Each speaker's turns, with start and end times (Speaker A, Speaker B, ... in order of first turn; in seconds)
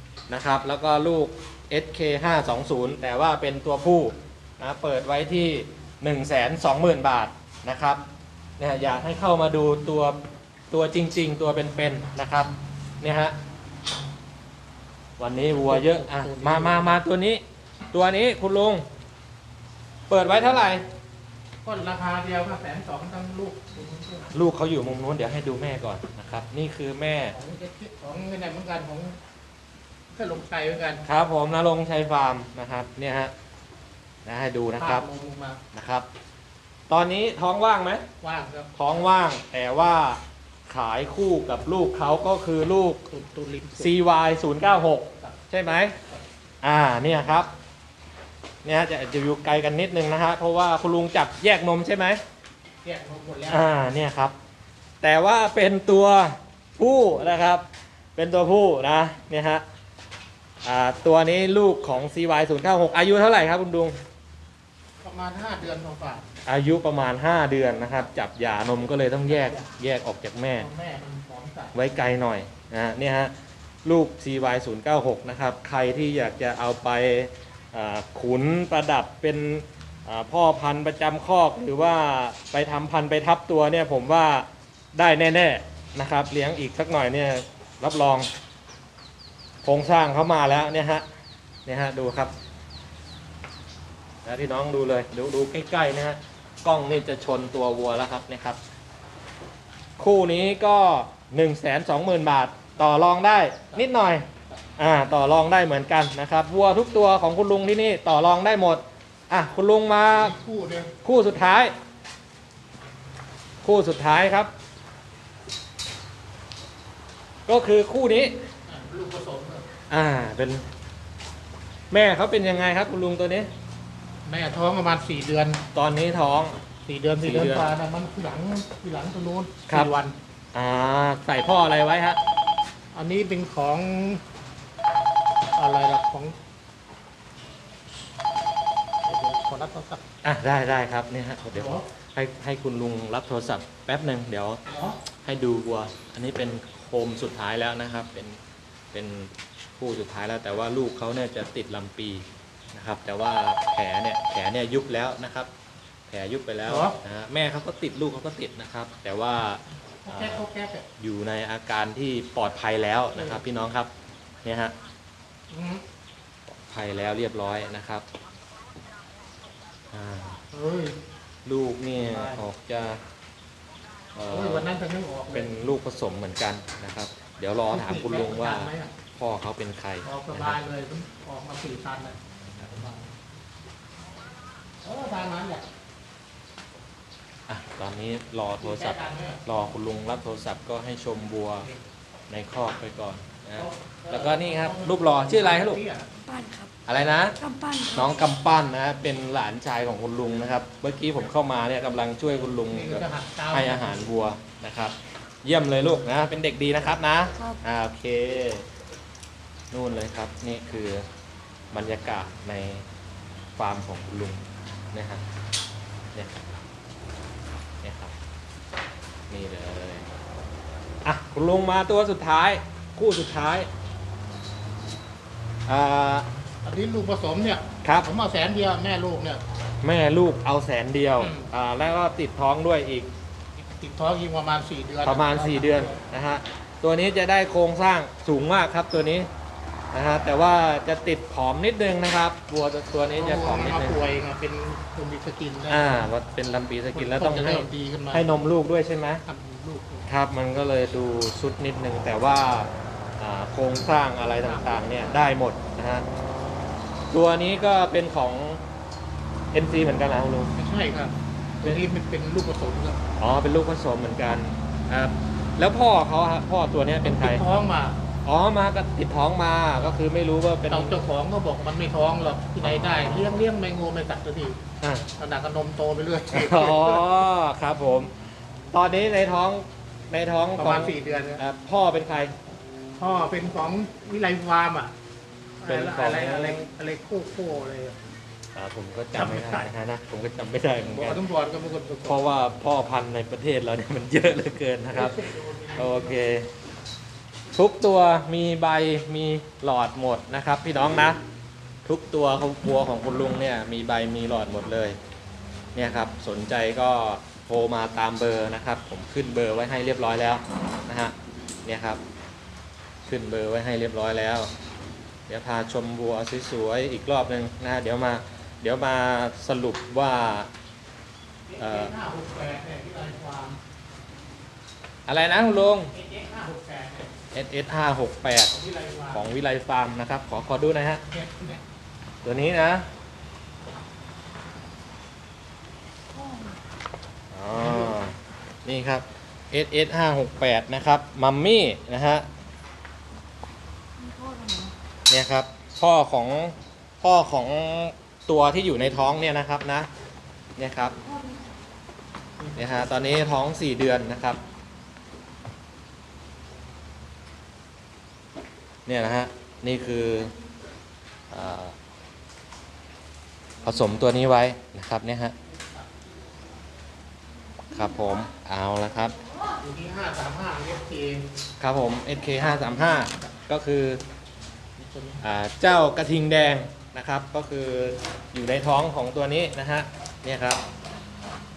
Speaker A: 0.3-8.0, 8.6-10.2, 10.7-13.4, 15.2-18.9, 20.1-20.9, 24.3-27.4, 31.1-33.3, 34.3-35.0, 35.7-36.1, 36.9-38.0, 38.7-43.0, 43.8-46.0, 46.6-47.5, 48.6-52.2, 53.5-54.4, 55.0-57.6, 58.2-59.6, 60.6-64.0, 66.5-70.7, 71.7-73.3, 73.8-88.3, 89.6-91.0, 91.7-92.3, 94.2-98.6, 100.0-104.3, 104.8-110.3, 111.0-111.7, 113.6-114.5, 117.5-118.4, 119.9-120.7, 121.9-123.5, 125.7-126.6, 127.2-127.7, 130.5-132.2, 140.2-144.6, 145.2-148.4, 148.9-155.5, 156.1-160.4, 161.0-163.9, 164.4-164.7, 166.5-168.1, 169.9-170.4, 171.4-173.0, 174.2-174.7, 175.3-180.6, 187.5-191.7, 192.3-195.8, 196.9-197.4, 197.9-208.7, 209.7-211.1, 211.7-212.8, 213.6-215.2, 217.8-218.1, 219.3-220.1, 221.1-223.7, 225.7-226.3, 227.8-228.1, 229.8-233.1, 235.0-239.3, 239.9-244.0, 245.7-249.2, 250.1-256.1, 257.1-258.6, 259.5-260.5, 263.2-267.4, 268.2-271.0, 272.6-273.3, 274.8-275.1, 276.3-278.1, 278.7-282.3, 285.7-286.6, 288.6-291.2, 292.1-295.2, 295.8-296.5, 297.5-301.2, 301.9-305.0, 305.8-311.1, 311.7-312.0, 313.1-314.5, 315.3-320.5, 321.6-321.9, 325.1-325.9, 327.3-328.6, 329.1-331.0, 332.2-332.9, 337.3-342.3, 345.1-349.9, 350.6-351.0, 352.6-354.4, 358.9-360.3, 361.3-361.8, 363.6-365.4, 367.7-369.2, 371.6-374.0, 375.2-380.6
Speaker B: 15.5-17.0, 21.6-24.3, 27.3-29.2, 30.1-31.1, 34.8-35.6, 38.2-38.7, 43.1-43.9, 45.2-46.2, 52.8-53.7, 65.0-66.3, 69.3-69.7, 70.6-71.8, 103.7-104.6, 110.1-110.9, 118.7-119.7, 124.2-125.6, 126.9-130.2, 132.9-134.2, 135.6-136.4, 139.1-140.0, 141.5-141.8, 144.7-145.0, 156.7-157.0, 160.0-160.9, 163.2-163.4, 165.5-165.8, 170.5-171.0, 172.0-172.4, 174.3-175.5, 177.7-178.9, 180.0-183.1, 184.8-185.7, 188.6-189.4, 193.6-196.1, 202.6-204.1, 226.6-229.4, 231.2-231.5, 233.6-236.0, 243.1-246.1, 246.9-248.4, 249.2-250.1, 254.2-255.3, 260.6-263.1, 267.2-268.0, 270.7-274.6, 275.1-277.1, 280.6-281.4, 283.0-284.9, 285.6-288.0, 289.1-289.7, 290.8-292.2, 294.9-296.2, 321.5-323.6, 325.9-327.1, 328.5-329.3, 331.1-331.6, 337.6-338.0, 352.4-353.1, 365.5-365.9, 369.6-371.3, 372.4-373.3, 374.8-375.2
Speaker C: 196.2-196.8, 197.3-198.2, 344.0-344.7